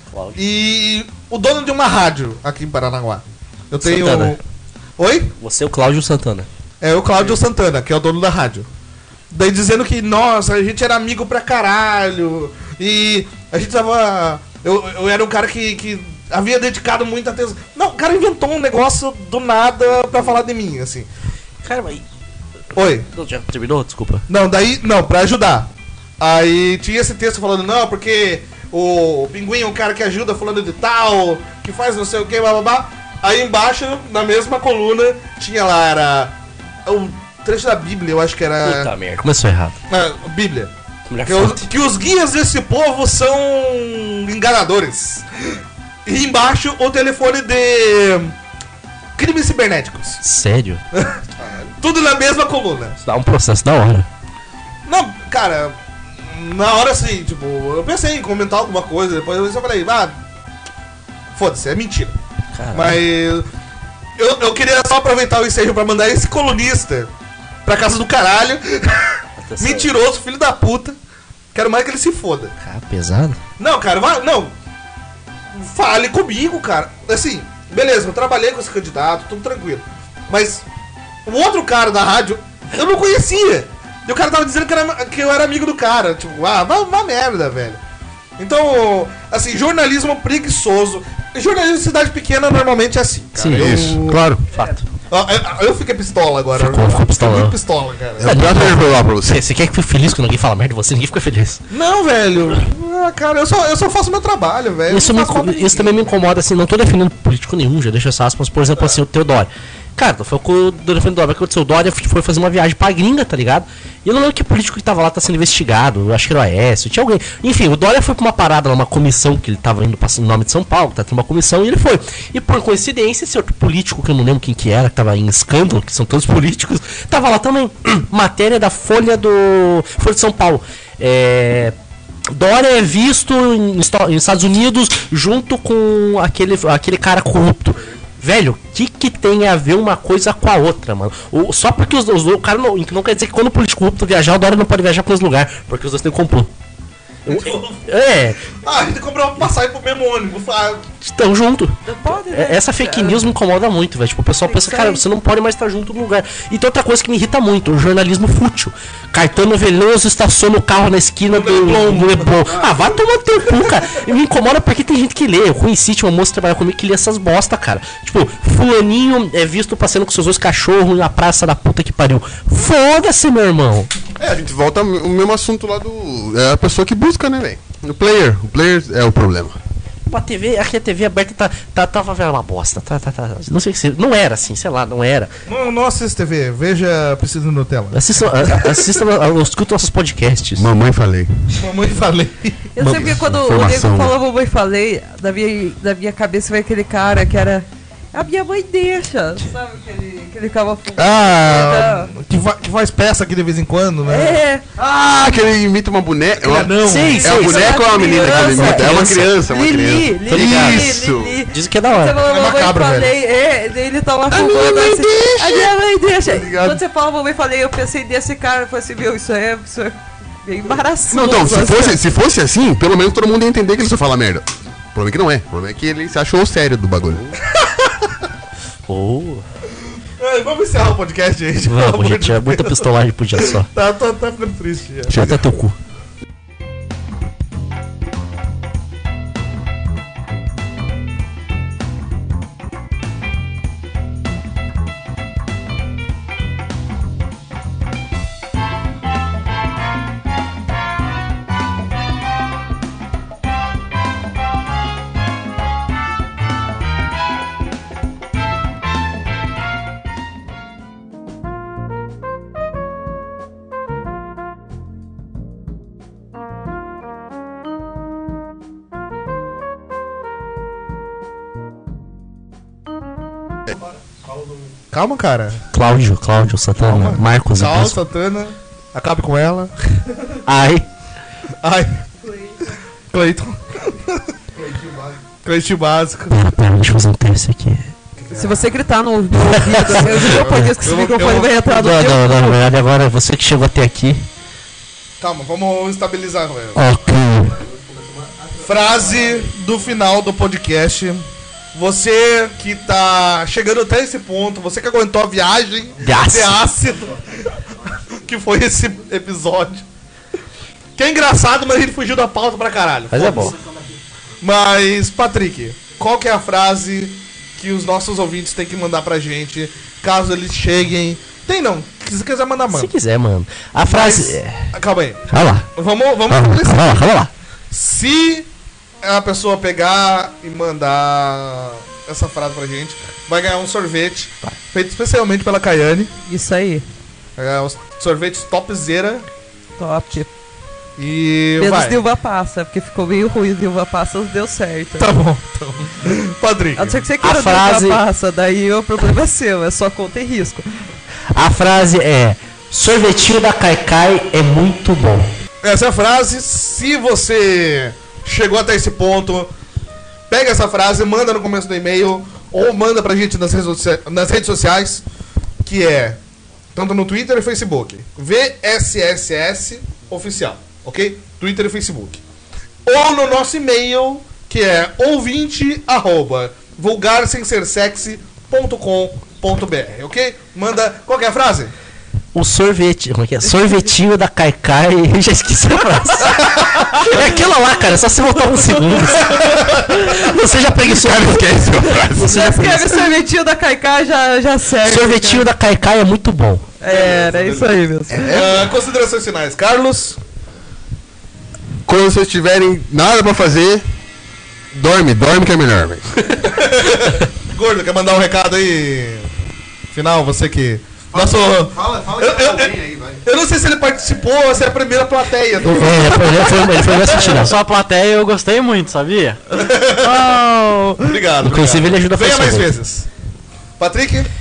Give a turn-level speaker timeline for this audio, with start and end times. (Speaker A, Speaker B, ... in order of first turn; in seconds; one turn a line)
Speaker A: 0.1-0.4
Speaker B: 0.4-4.4
Speaker A: 3.8-4.4
Speaker B: 5.0-5.3
Speaker A: 5.4-6.5
Speaker B: 6.8-8.7
Speaker B: 9.3-21.1
Speaker A: 21.6-22.0
Speaker B: 22.7-23.1
Speaker A: 23.1-24.2
Speaker B: 24.3-36.4
Speaker B: 36.9-38.9
Speaker A: 38.6-39.8
Speaker B: 39.9-40.7
Speaker A: 41.1-41.6
Speaker B: 41.2-45.5
Speaker B: 46.0-48.3
Speaker B: 49.2-50.2
Speaker A: 50.2-50.8
Speaker B: 50.9-53.0
Speaker A: 53.0-54.1
Speaker B: 54.9-60.2
Speaker B: 61.4-62.1
Speaker A: 62.5-63.0
Speaker B: 62.7-63.5
Speaker B: 64.2-67.1
Speaker B: 67.7-70.9
Speaker A: 69.4-69.9
Speaker B: 71.5-72.5
Speaker A: 72.6-73.4
Speaker B: 73.6-74.5
Speaker B: 75.5-80.7
Speaker B: 81.3-87.8
Speaker B: 88.4-94.2
Speaker A: 93.4-94.8
Speaker C: 93.6-94.0
Speaker B: 95.1-98.4
Speaker A: 96.6-97.6
Speaker C: 98.2-99.4
Speaker A: 98.2-101.6
Speaker B: 101.7-106.1
Speaker A: 104.9-131.7
Speaker A: 132.3-146.5
Speaker B: 147.3-147.9
Speaker A: 147.3-148.4
Speaker B: 148.4-150.9
Speaker A: 151.0-173.9
Speaker D: 151.8-153.3
Speaker D: 154.4-155.1
Speaker B: 161.3-162.7
Speaker C: 174.2-179.6
Speaker A: 180.1-185.3
Speaker B: 185.5-188.8
Speaker A: 187.9-190.7
Speaker C: 190.6-191.6
Speaker B: 191.6-192.7
Speaker D: 192.7-202.1
Speaker A: 192.8-194.1
Speaker B: 200.9-204.4
Speaker D: 204.1-204.6
Speaker C: 204.8-211.4
Speaker B: 206.4-207.3
Speaker A: 206.8-209.3
Speaker D: 207.1-222.0
Speaker A: 210.3-210.8
Speaker A: 211.5-212.2
Speaker B: 212.3-213.1
Speaker C: 214.3-215.7
Speaker B: 216.3-216.8
Speaker C: 221.1-227.4
Speaker B: 227.5-227.9
Speaker A: 228.9-229.4
Speaker B: 230.2-235.4
Speaker A: 231.7-233.7
Speaker A: 235.1-235.8
Speaker B: 274.9-275.6
Speaker A: 275.7-278.0
Speaker B: 276.8-279.7
Speaker A: 280.4-280.9
Speaker B: 281.6-282.0
Speaker D: 282.3-282.5
Speaker B: 283.1-286.4
Speaker A: 286.3-287.9
Speaker B: 288.2-288.7
Speaker D: 288.3-292.6
Speaker A: 289.4-290.7
Speaker B: 289.9-291.9
Speaker A: 291.6-294.3
Speaker B: 295.2-296.8
Speaker A: 296.7-297.6
Speaker C: 297.8-298.3
Speaker B: 298.6-307.5
Speaker A: 306.0-306.6
Speaker B: 308.2-309.9
Speaker B: 311.0-313.6
Speaker A: 313.1-313.5
Speaker B: 314.4-322.9
Speaker A: 322.7-324.7
Speaker B: 323.9-327.1
Speaker A: 325.3-325.7
Speaker A: 326.3-327.3
Speaker B: 327.7-328.5
Speaker B: 329.0-336.1
Speaker D: 336.2-336.9
Speaker B: 337.4-339.3
Speaker D: 339.8-340.3
Speaker B: 341.0-342.0
Speaker D: 341.6-345.1
Speaker B: 345.0-347.0
Speaker D: 346.8-350.6
Speaker A: 347.2-348.0
Speaker A: 351.3-355.3
Speaker B: 355.6-359.5
Speaker B: 360.3-365.0
Speaker B: 365.6-366.2
Speaker B: 366.7-372.2
Speaker B: 372.9-381.7
Speaker A: 382.3-392.9
Speaker B: 386.4-387.2
Speaker D: 388.6-388.9
Speaker B: 389.4-390.1
Speaker C: 390.7-392.8
Speaker D: 392.1-395.5
Speaker A: 394.8-396.7
Speaker D: 396.8-398.4
Speaker B: 396.9-400.2
Speaker C: 401.9-403.9
Speaker C: 404.7-406.4
Speaker B: 406.4-409.3
Speaker B: 409.9-417.5
Speaker C: 411.1-413.2
Speaker A: 415.6-417.6
Speaker E: 417.3-419.4
Speaker B: 419.5-420.4
Speaker D: 420.0-421.2
Speaker B: 421.0-423.1
Speaker A: 421.4-422.7
Speaker B: 423.8-424.3